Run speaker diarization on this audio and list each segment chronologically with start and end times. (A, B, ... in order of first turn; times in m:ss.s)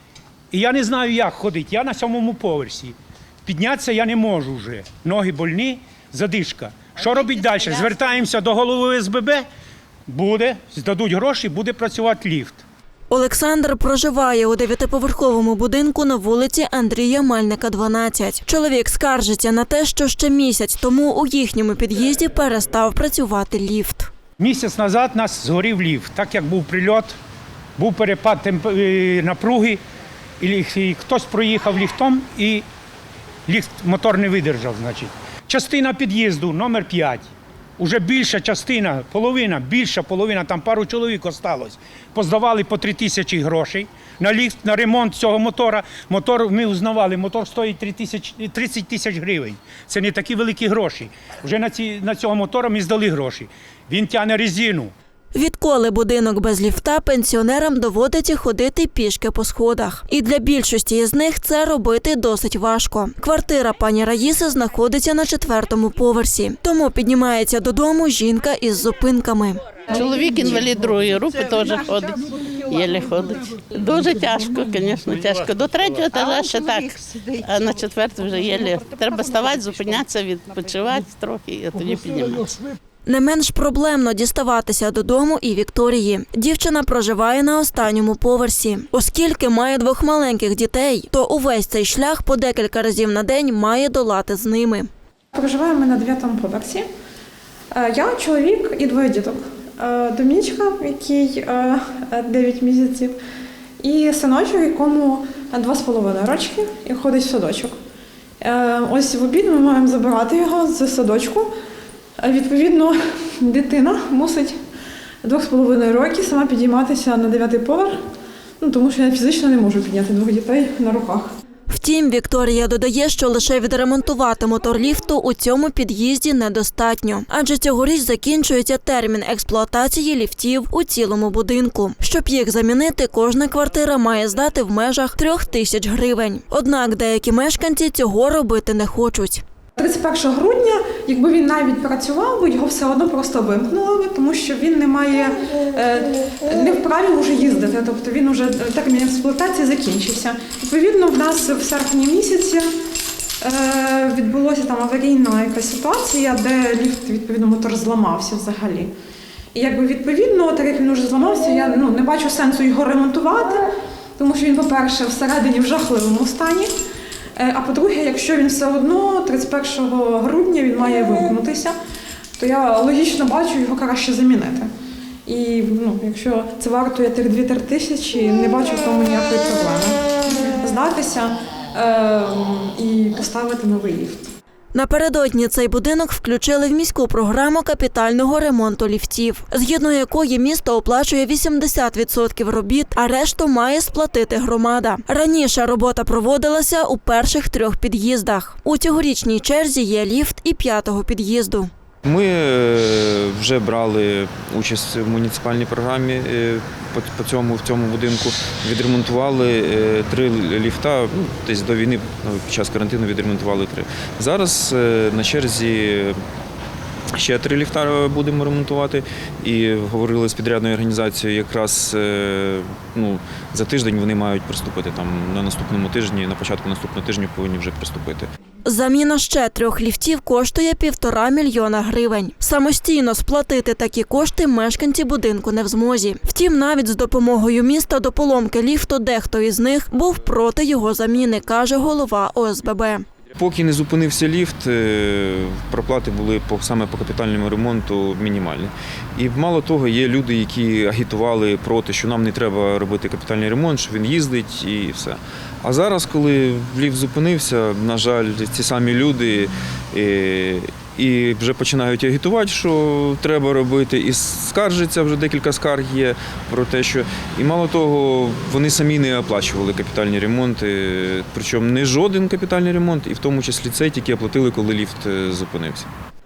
0:00.5-0:09.5 A
0:10.1-0:12.6 A
0:13.1-0:24.1 B
0:24.4-0:27.2 A
0:27.8-0:29.8 A
0:30.4-0:32.6 A
0:33.5-0:54.9 A
0:55.3-1:09.6 B
1:09.9-1:22.6 C
1:23.1-1:34.9 B
1:35.3-1:36.8 D
1:37.7-1:43.2 D
1:43.8-1:47.8 D
1:48.4-1:51.5 D
1:52.2-1:54.6 D
1:55.2-1:58.0 D
1:58.6-2:01.3 D
2:01.7-2:19.4 B
2:19.8-2:32.7 D
2:33.4-2:38.9 D
2:39.5-2:46.7 D
2:47.4-2:51.8 D
2:52.4-2:54.7 D
2:55.3-3:04.2 D
3:04.7-3:21.7 B
3:22.0-3:36.2 E
3:37.1-3:48.3 E
3:48.7-4:03.1 B
4:03.4-4:35.9 E